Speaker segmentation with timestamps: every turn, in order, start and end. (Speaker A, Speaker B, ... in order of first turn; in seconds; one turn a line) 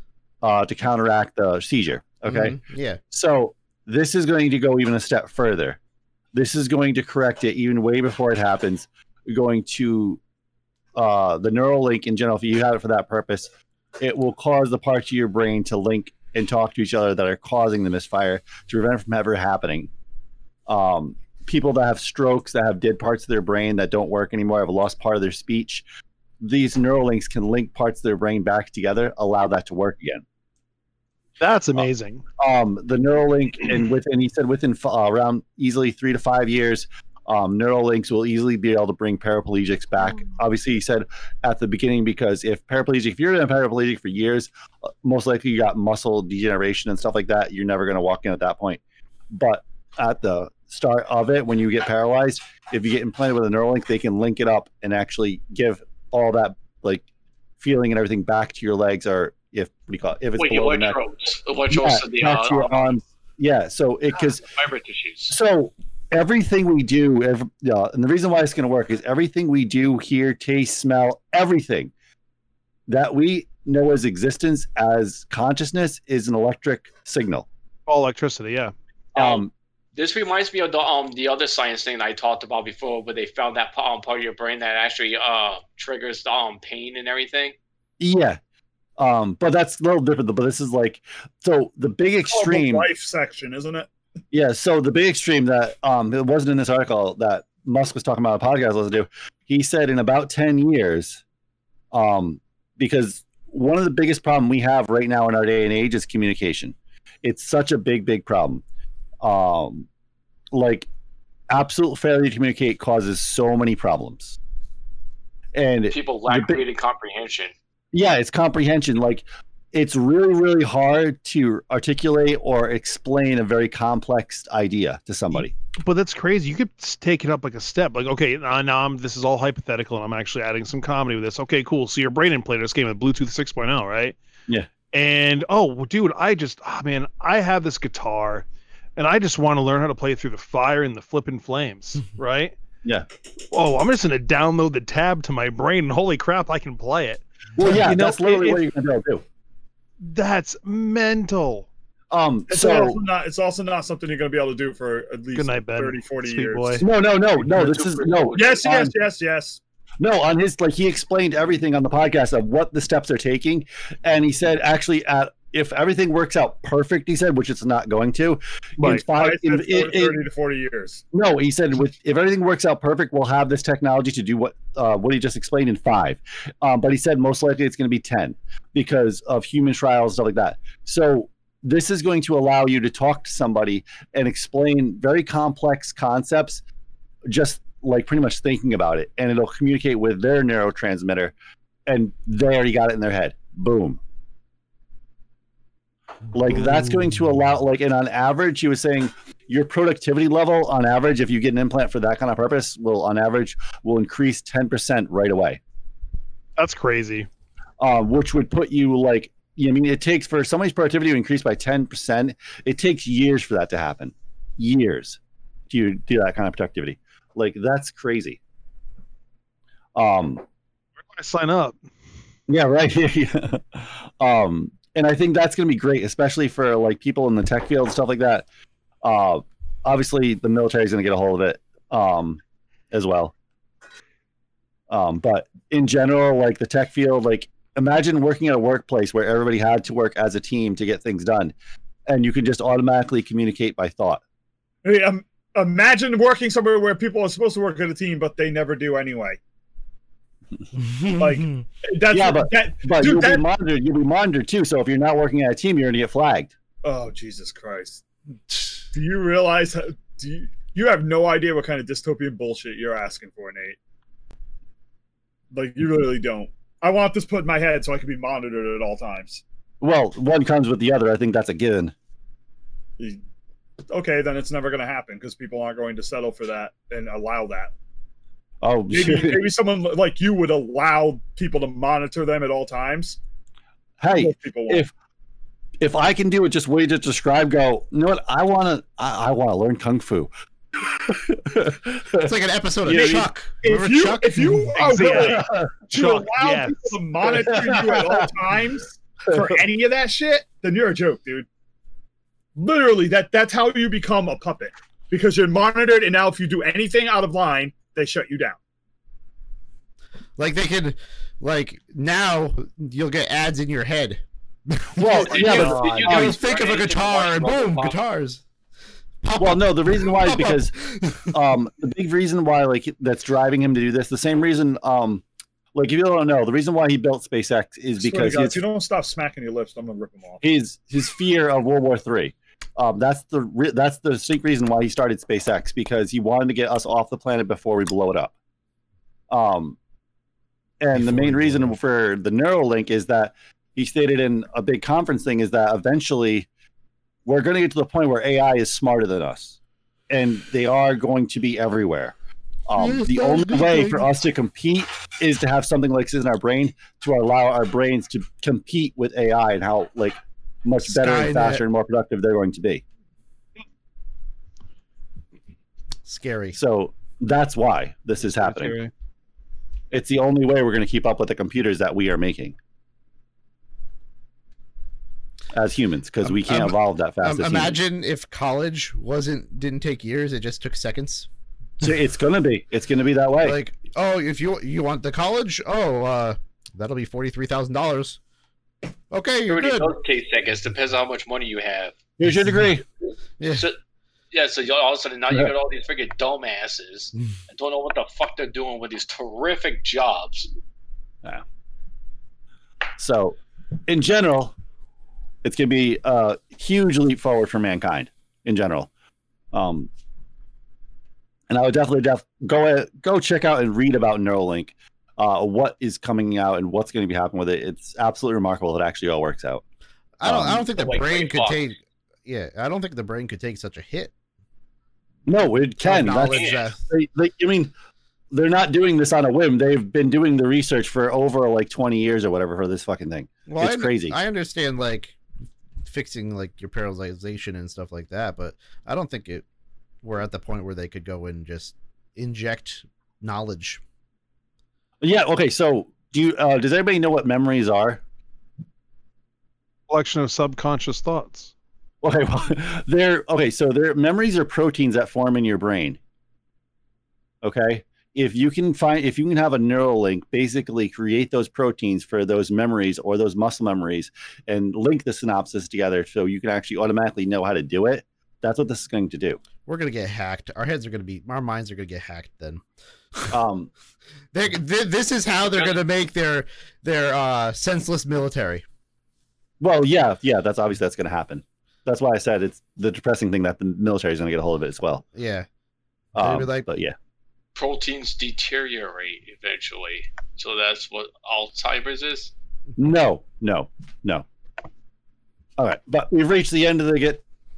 Speaker A: 0.4-2.6
Speaker B: 2.3-3.0
Speaker A: 3.1-5.8
Speaker A: 6.3-10.2
Speaker A: 11.0-19.9
Speaker A: 20.7-25.8
Speaker A: 26.4-30.2
Speaker C: 31.4-32.2
Speaker A: 32.4-44.5
Speaker A: 45.0-57.0
Speaker A: 57.6-61.0
Speaker D: 60.4-62.9
Speaker A: 61.7-64.5
Speaker D: 64.5-65.3
Speaker A: 65.3-71.9
Speaker A: 72.9-77.5
Speaker C: 77.9-78.7
Speaker A: 79.2-79.5
Speaker D: 79.2-79.4
Speaker D: 80.0-87.6
Speaker A: 88.0-88.4
Speaker A: 89.0-92.9
Speaker E: 92.3-93.9
Speaker A: 94.3-101.2
Speaker A: 101.9-108.6
Speaker A: 109.2-109.9
Speaker A: 110.5-110.9
Speaker A: 111.5-114.4
Speaker A: 115.5-116.6
Speaker D: 115.9-117.5
Speaker A: 117.9-125.5
Speaker C: 125.3-134.2
Speaker C: 134.9-138.5
Speaker C: 139.0-142.6
Speaker C: 143.5-148.7
Speaker A: 147.6-149.2
Speaker C: 150.0-151.7
Speaker A: 152.1-153.0
Speaker E: 152.5-156.8
Speaker C: 155.3-156.8
Speaker A: 156.8-158.9
Speaker D: 157.4-158.6
Speaker E: 158.3-159.6
Speaker A: 160.0-170.2
Speaker E: 169.1-171.0
Speaker A: 171.1-186.6
Speaker A: 187.3-191.3
Speaker A: 191.9-194.0
Speaker A: 196.3-205.6
Speaker C: 206.6-207.3
Speaker A: 207.8-215.2
Speaker A: 215.7-218.4
Speaker A: 219.9-220.4
Speaker C: 221.1-221.8
Speaker A: 222.5-228.5
Speaker A: 229.0-232.4
Speaker A: 232.9-233.3
Speaker A: 234.9-241.5
Speaker A: 242.1-244.2
Speaker E: 244.8-249.4
Speaker B: 250.8-251.6
Speaker E: 251.2-253.4
Speaker A: 252.1-256.5
Speaker E: 256.8-258.0
Speaker E: 258.9-263.8
Speaker E: 265.5-269.4
Speaker A: 269.8-271.9
Speaker E: 273.9-277.7
Speaker A: 278.6-279.5
Speaker E: 278.9-283.2
Speaker A: 284.0-284.9
Speaker E: 284.1-284.9
Speaker A: 285.8-292.3
Speaker B: 292.2-294.8
Speaker A: 292.9-293.3
Speaker E: 293.6-301.5
Speaker C: 294.8-297.6
Speaker A: 295.1-295.7
Speaker A: 297.4-298.3
Speaker A: 299.3-299.6
Speaker E: 302.6-308.6
Speaker B: 310.4-318.4
Speaker A: 315.0-316.4
Speaker D: 315.1-318.0
Speaker B: 319.2-321.3
Speaker A: 319.4-320.8
Speaker A: 321.3-325.2
Speaker A: 325.7-328.6
Speaker E: 328.0-330.4
Speaker A: 330.4-338.3
Speaker A: 339.3-339.8
Speaker A: 340.8-346.5
Speaker B: 340.9-341.8
Speaker A: 347.2-349.6
Speaker A: 350.1-352.1
Speaker A: 352.7-362.8
Speaker B: 352.8-354.1
Speaker B: 360.9-361.6
Speaker B: 366.1-366.6
Speaker A: 366.6-368.8
Speaker C: 368.2-368.9
Speaker A: 369.9-372.6
Speaker A: 375.5-377.8
Speaker B: 376.2-381.3
Speaker A: 381.8-383.6
Speaker B: 383.4-388.2
Speaker B: 389.1-389.9
Speaker D: 389.5-391.9
Speaker A: 392.2-392.9
Speaker B: 393.4-393.6
Speaker D: 393.4-393.8
Speaker D: 394.3-400.5
Speaker A: 403.0-404.6
Speaker A: 405.4-408.9
Speaker A: 409.5-409.9
Speaker A: 411.5-419.6
Speaker B: 420.2-424.1
Speaker A: 420.2-420.7
Speaker D: 420.7-421.6
Speaker A: 425.3-427.7
Speaker B: 425.8-426.8
Speaker D: 426.3-426.7
Speaker A: 428.3-434.1
Speaker B: 433.5-435.2
Speaker B: 435.8-439.4
Speaker B: 440.0-443.8
Speaker A: 445.0-448.0
Speaker C: 449.9-451.5
Speaker A: 452.0-456.0
Speaker A: 457.4-469.4
Speaker B: 469.6-472.6
Speaker A: 473.3-473.7
Speaker B: 474.3-478.6
Speaker A: 479.6-485.0
Speaker B: 485.1-485.5
Speaker A: 486.1-486.9
Speaker B: 486.2-486.7
Speaker D: 487.6-492.3
Speaker A: 492.8-494.2
Speaker A: 495.6-497.2